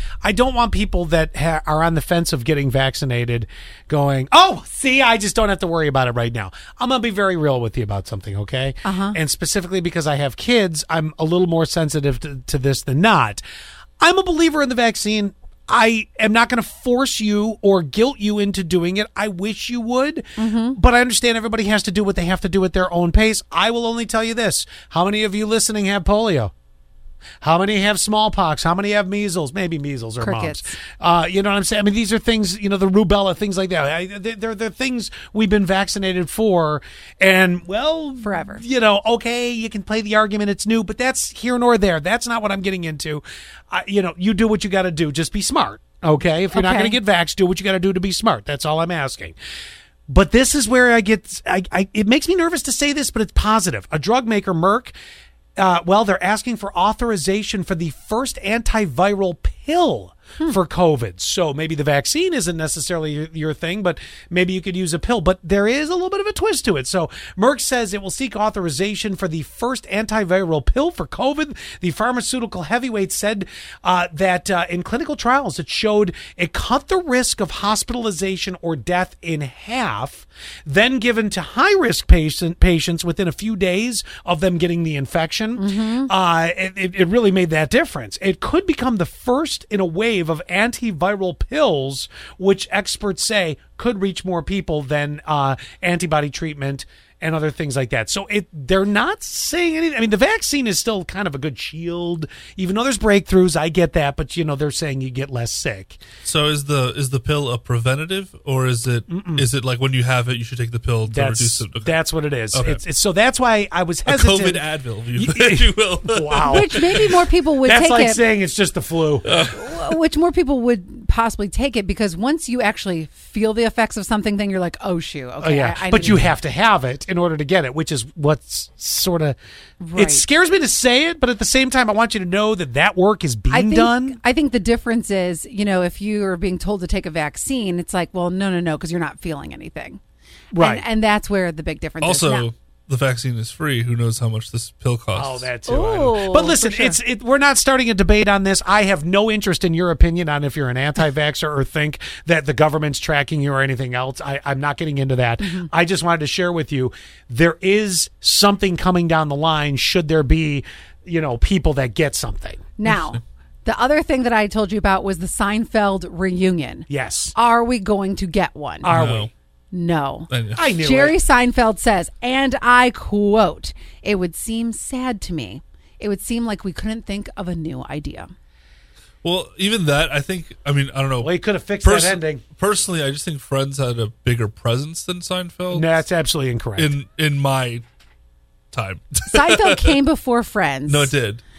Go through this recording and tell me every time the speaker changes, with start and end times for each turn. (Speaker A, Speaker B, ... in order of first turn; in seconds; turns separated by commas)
Speaker A: 0.2-13.4, Speaker B: 8.8-9.2, Speaker A: 14.0-26.5, Speaker B: 20.4-20.8, Speaker A: 27.4-49.3, Speaker B: 30.2-30.7, Speaker B: 38.2-38.6, Speaker B: 46.5-47.0, Speaker A: 50.1-54.9, Speaker A: 55.6-106.0, Speaker B: 85.6-86.1, Speaker C: 106.2-112.0, Speaker A: 109.1-109.5, Speaker A: 111.1-116.8, Speaker C: 112.5-112.8, Speaker C: 114.1-117.1, Speaker B: 116.5-118.2, Speaker A: 117.6-119.3, Speaker C: 119.2-119.9, Speaker B: 119.5-126.3, Speaker A: 125.4-129.4, Speaker B: 129.8-130.2, Speaker A: 129.9-134.2, Speaker B: 133.5-140.0, Speaker A: 140.5-140.8, Speaker B: 140.6-142.5, Speaker C: 142.0-145.5, Speaker A: 145.1-162.6, Speaker B: 145.7-146.9, Speaker B: 155.4-155.7, Speaker B: 162.8-168.9, Speaker A: 166.9-167.3, Speaker A: 168.8-169.3, Speaker C: 168.9-169.3, Speaker B: 169.7-178.3, Speaker C: 170.3-170.7, Speaker A: 170.5-171.2, Speaker C: 179.2-185.9, Speaker A: 181.2-182.4, Speaker A: 185.7-186.9, Speaker C: 186.8-187.8, Speaker C: 188.7-190.0, Speaker B: 189.3-191.1, Speaker C: 190.9-191.4